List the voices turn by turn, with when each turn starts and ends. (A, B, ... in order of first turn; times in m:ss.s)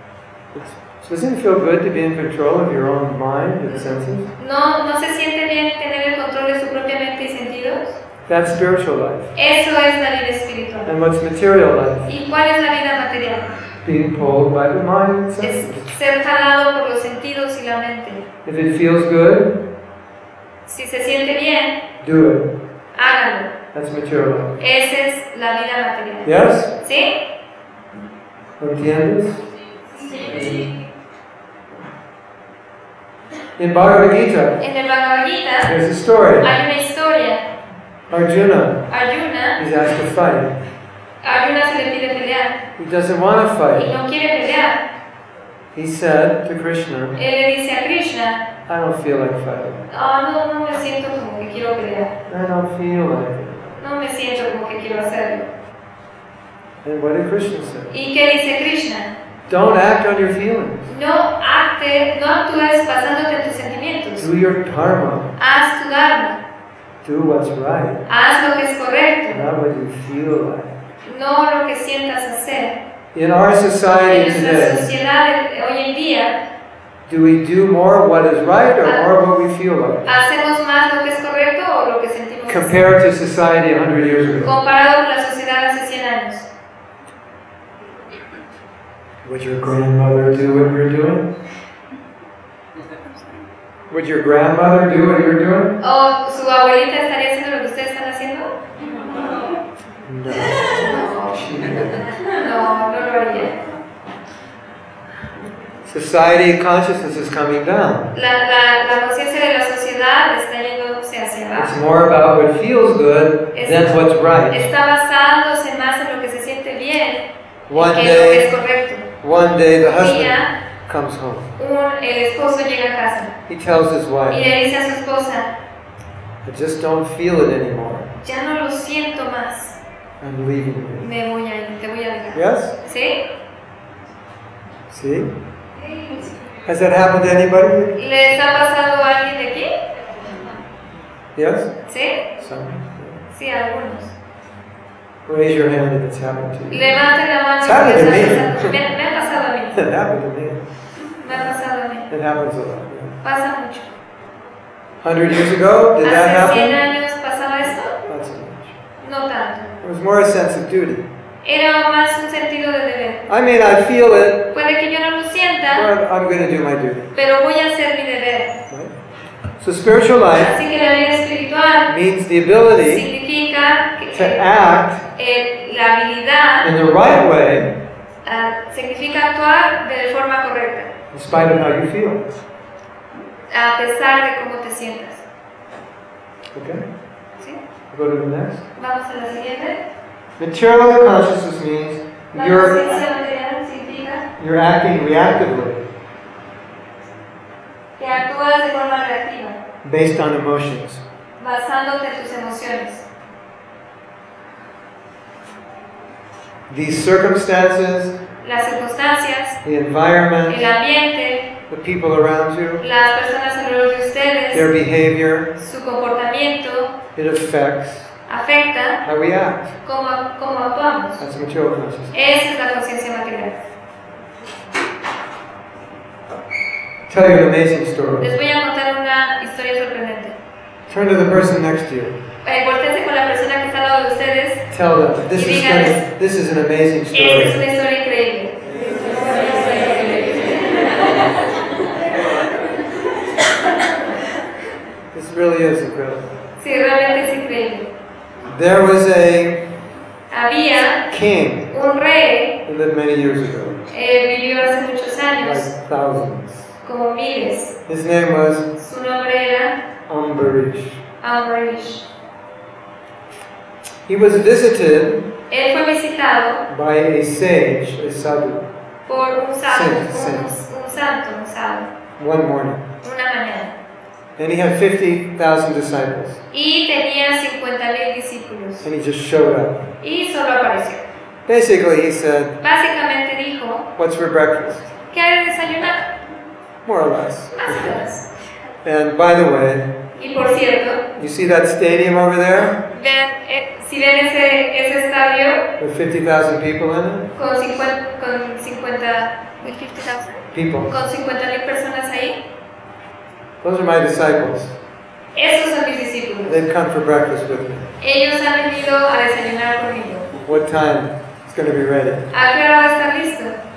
0:00.5-0:04.3 A
0:04.4-0:08.0 B
0:08.3-0:09.3 A
0:09.3-0:10.9 B
0:10.8-0:12.1 A
0:12.0-0:13.6 B
0:13.8-0:15.9 A
0:15.4-0:18.2 B
0:18.4-0:19.6 A
0:20.7-0:21.8 B
0:22.0-0:22.5 A
0:23.0-0:23.5 B
0:23.7-0:24.6 A
0:24.6-0:27.2 B
0:26.2-0:26.7 A
0:28.6-0:29.4 A
0:30.0-0:30.7 B
0:30.2-0:30.7 A
0:33.6-0:34.6 A
0:34.6-0:35.8 B
0:35.6-0:36.5 A
0:36.4-0:37.4 B
0:38.1-0:38.9 A
0:38.9-0:39.6 B
0:39.6-0:40.6 A
0:41.2-0:42.6 B
0:42.8-0:43.9 A
0:43.8-0:44.8 B
0:45.7-0:47.2 A
0:47.2-0:48.4 B
0:48.7-0:49.8 A
0:49.9-0:52.1 B
0:52.3-0:53.8 A
0:53.8-0:55.5 B
0:56.8-0:57.9 A
0:57.9-0:59.1 B
0:59.5-1:00.9 A
1:00.9-1:04.3 B
1:04.2-1:05.3 A
1:05.4-1:06.4 B
1:07.0-1:08.0 A
1:08.1-1:09.4 B
1:09.3-1:10.7 A
1:11.0-1:12.8 B
1:13.1-1:14.9 A
1:14.0-1:16.4 B
1:17.1-1:20.1 A
1:20.0-1:22.8 B
1:22.4-1:24.6 A
1:24.4-1:26.5 B
1:29.2-1:31.3 A
1:33.9-1:35.7 A
1:35.8-1:38.5 B
1:40.0-1:42.1 A
1:40.7-1:43.6 B
1:45.8-1:48.1 A
1:48.1-1:51.7 B
1:51.6-1:54.7 A
1:53.5-1:59.1 B
1:57.7-1:58.5 A
1:59.2-2:01.5 A
1:59.8-2:00.5 B
2:01.6-2:03.3 B
2:03.5-2:04.4 A
2:04.3-2:05.5 B
2:06.4-2:08.1 A
2:08.2-2:09.8 B
2:10.2-2:11.1 A
2:11.0-2:13.2 B
2:12.3-2:12.7 A
2:14.9-2:15.3 A
2:16.6-2:17.9 A
2:18.0-2:19.7 B
2:21.4-2:21.7 A
2:21.9-2:22.3 B
2:22.4-2:23.2 A
2:23.3-2:24.1 B
2:25.2-2:26.9 A
2:26.7-2:29.8 B
2:27.6-2:28.8 A
2:29.7-2:30.6 A
2:31.2-2:32.1 B
2:32.1-2:33.2 A
2:33.2-2:33.9 B
2:35.0-2:36.8 A
2:36.0-2:38.0 B
2:38.1-2:38.8 A
2:39.0-2:39.7 B
2:39.8-2:41.0 A
2:41.4-2:43.3 B
2:43.3-2:44.5 A
2:44.5-2:45.9 B
2:45.7-2:47.1 A
2:47.1-2:48.6 B
2:49.6-2:50.6 A
2:50.4-2:51.9 B
2:51.9-2:53.1 A
2:52.8-2:54.5 B
2:54.1-2:55.0 A
2:55.1-2:56.7 B
2:56.6-2:57.7 A
2:58.2-3:00.9 B
3:01.1-3:02.4 A
3:03.5-3:05.2 B
3:06.5-3:06.8 A
3:07.9-3:08.6 A
3:08.7-3:09.8 B
3:10.4-3:13.0 A
3:12.3-3:14.3 B
3:14.4-3:15.8 A
3:18.0-3:19.6 B
3:19.8-3:21.0 A
3:21.4-3:23.0 B
3:26.7-3:28.2 A
3:28.4-3:29.6 B
3:29.6-3:30.7 A
3:30.5-3:31.5 B
3:31.7-3:32.8 A
3:32.8-3:34.7 B
3:34.5-3:35.5 A
3:35.6-3:36.9 B
3:37.1-3:38.1 A
3:38.3-3:39.0 B
3:39.0-3:39.7 A
3:39.8-3:41.2 B
3:41.2-3:42.1 A
3:42.1-3:43.6 B
3:47.1-3:48.3 A
3:48.2-3:50.4 B
3:50.9-3:52.1 A
3:52.4-3:54.6 B
3:54.7-3:57.6 A
3:55.3-3:56.0 B
3:57.1-4:01.2 B
4:05.1-4:06.3 A
4:06.6-4:07.9 B
4:08.5-4:09.7 A
4:10.3-4:11.1 B
4:11.1-4:11.7 A
4:11.7-4:12.6 B
4:12.6-4:13.9 A
4:13.9-4:15.7 B
4:15.4-4:16.7 A
4:16.8-4:17.7 B
4:17.9-4:18.7 A
4:18.8-4:19.8 B
4:20.1-4:21.0 A
4:21.2-4:22.1 B
4:24.1-4:25.3 A
4:25.5-4:26.6 B
4:26.7-4:28.7 A
4:29.1-4:31.9 B
4:29.6-4:30.5 A
4:32.2-4:32.8 A
4:33.0-4:33.7 B
4:34.4-4:36.4 A
4:36.5-4:38.9 B
4:38.8-4:39.8 A
4:40.0-4:41.0 B
4:41.5-4:42.6 A
4:42.6-4:43.9 B
4:44.0-4:44.9 A
4:45.1-4:46.1 B
4:46.8-4:48.0 A
4:47.5-4:48.3 B
4:48.8-4:49.9 A
4:50.2-4:51.0 B
4:51.1-4:52.8 A
4:52.9-4:55.7 B
4:55.8-4:57.3 A
4:57.4-5:02.4 B
5:00.5-5:00.9 A
5:03.6-5:04.7 A
5:05.3-5:06.6 B
5:06.4-5:07.9 A
5:08.0-5:10.3 B
5:10.4-5:12.2 A
5:12.3-5:13.6 B